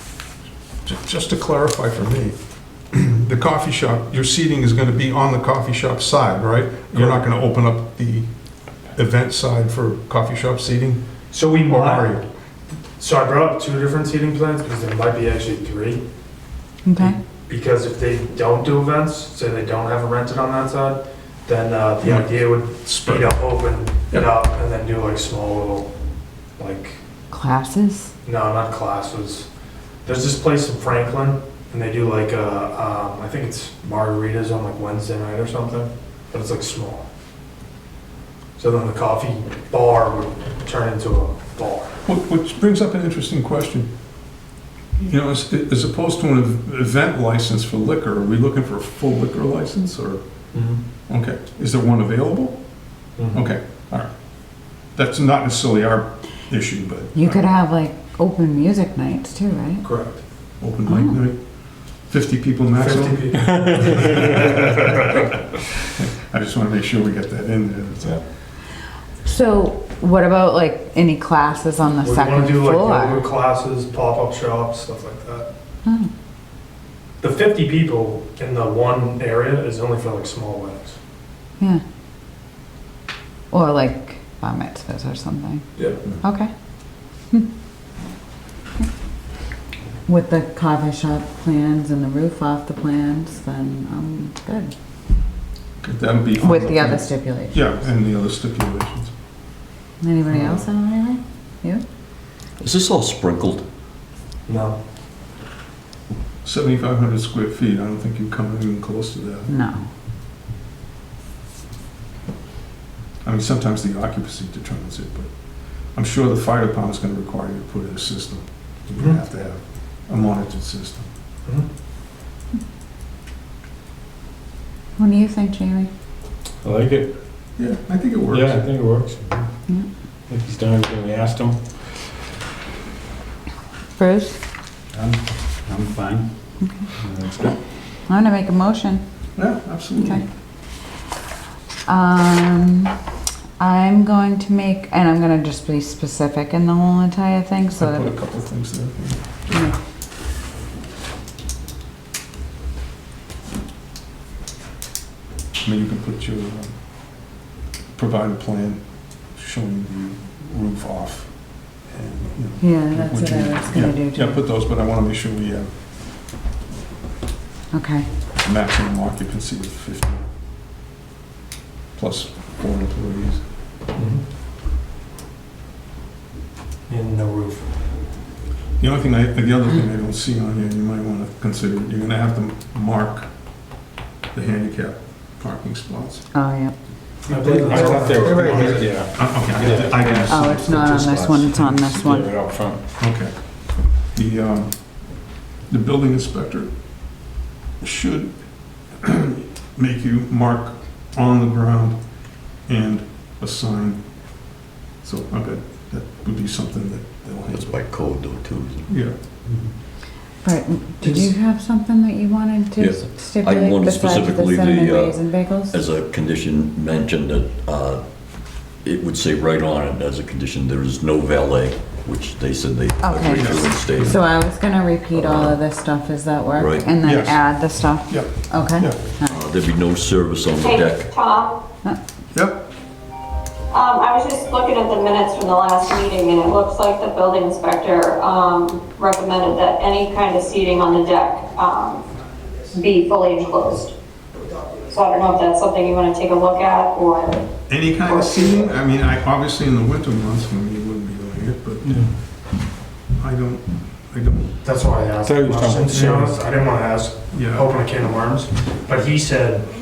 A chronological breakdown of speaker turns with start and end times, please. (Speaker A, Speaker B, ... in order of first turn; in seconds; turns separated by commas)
Speaker A: 0.8-12.2, Speaker B: 6.9-7.2, Speaker B: 11.3-12.2, Speaker B: 13.0-16.0, Speaker C: 16.8-17.2, Speaker B: 17.5-25.9, Speaker A: 22.0-23.5, Speaker B: 26.6-27.0, Speaker C: 27.3-28.1, Speaker B: 28.2-29.5, Speaker B: 30.1-37.0, Speaker B: 38.6-41.9, Speaker A: 42.0-43.9, Speaker A: 45.0-50.5, Speaker B: 50.5-50.8, Speaker A: 51.1-57.5, Speaker B: 53.2-53.4, Speaker C: 57.2-59.9, Speaker B: 59.8-60.2, Speaker A: 60.6-63.3, Speaker C: 60.8-61.2, Speaker B: 62.8-64.3, Speaker A: 64.0-65.0, Speaker A: 65.9-68.3, Speaker C: 69.2-73.2, Speaker B: 72.0-75.5, Speaker B: 77.2-81.0, Speaker C: 83.5-86.5, Speaker C: 90.1-94.7, Speaker A: 95.8-99.1, Speaker C: 96.4-97.7, Speaker C: 100.0-101.8, Speaker A: 100.3-100.7, Speaker D: 102.6-103.6, Speaker B: 104.5-104.8, Speaker A: 106.4-109.5, Speaker C: 109.5-109.8, Speaker A: 113.2-121.1, Speaker C: 125.0-125.9, Speaker E: 126.6-127.1, Speaker A: 127.5-128.7, Speaker E: 128.3-129.5, Speaker E: 130.3-131.9, Speaker C: 133.9-134.4, Speaker E: 134.9-136.3, Speaker E: 137.0-137.6, Speaker C: 138.1-139.0, Speaker A: 139.4-140.2, Speaker C: 140.0-140.2, Speaker C: 141.9-142.9, Speaker C: 143.6-148.1, Speaker A: 147.8-149.7, Speaker C: 149.5-149.8, Speaker A: 155.6-157.4, Speaker A: 157.9-165.7, Speaker C: 162.6-164.4, Speaker C: 167.7-168.1, Speaker A: 168.4-170.3, Speaker A: 171.9-173.5, Speaker B: 173.9-174.2, Speaker B: 176.9-177.7, Speaker A: 178.8-183.8, Speaker A: 184.3-186.3, Speaker C: 186.3-186.8, Speaker B: 187.3-189.0, Speaker E: 187.3-192.9, Speaker A: 187.8-197.0, Speaker C: 190.3-192.3, Speaker A: 197.8-207.7, Speaker D: 207.5-209.0, Speaker A: 208.9-209.2, Speaker C: 210.4-215.8, Speaker D: 212.8-218.0, Speaker D: 218.7-224.2, Speaker C: 223.0-229.4, Speaker A: 223.3-224.2, Speaker D: 225.1-225.6, Speaker D: 226.6-226.9, Speaker A: 227.0-229.0, Speaker D: 229.2-231.1, Speaker F: 230.6-231.6, Speaker A: 232.3-232.7, Speaker F: 233.7-242.1, Speaker F: 242.7-243.9, Speaker F: 244.9-247.4, Speaker A: 247.7-252.5, Speaker F: 248.1-248.5, Speaker E: 251.8-252.1, Speaker A: 253.2-254.5, Speaker B: 254.6-259.6, Speaker E: 255.2-256.4, Speaker A: 257.3-257.7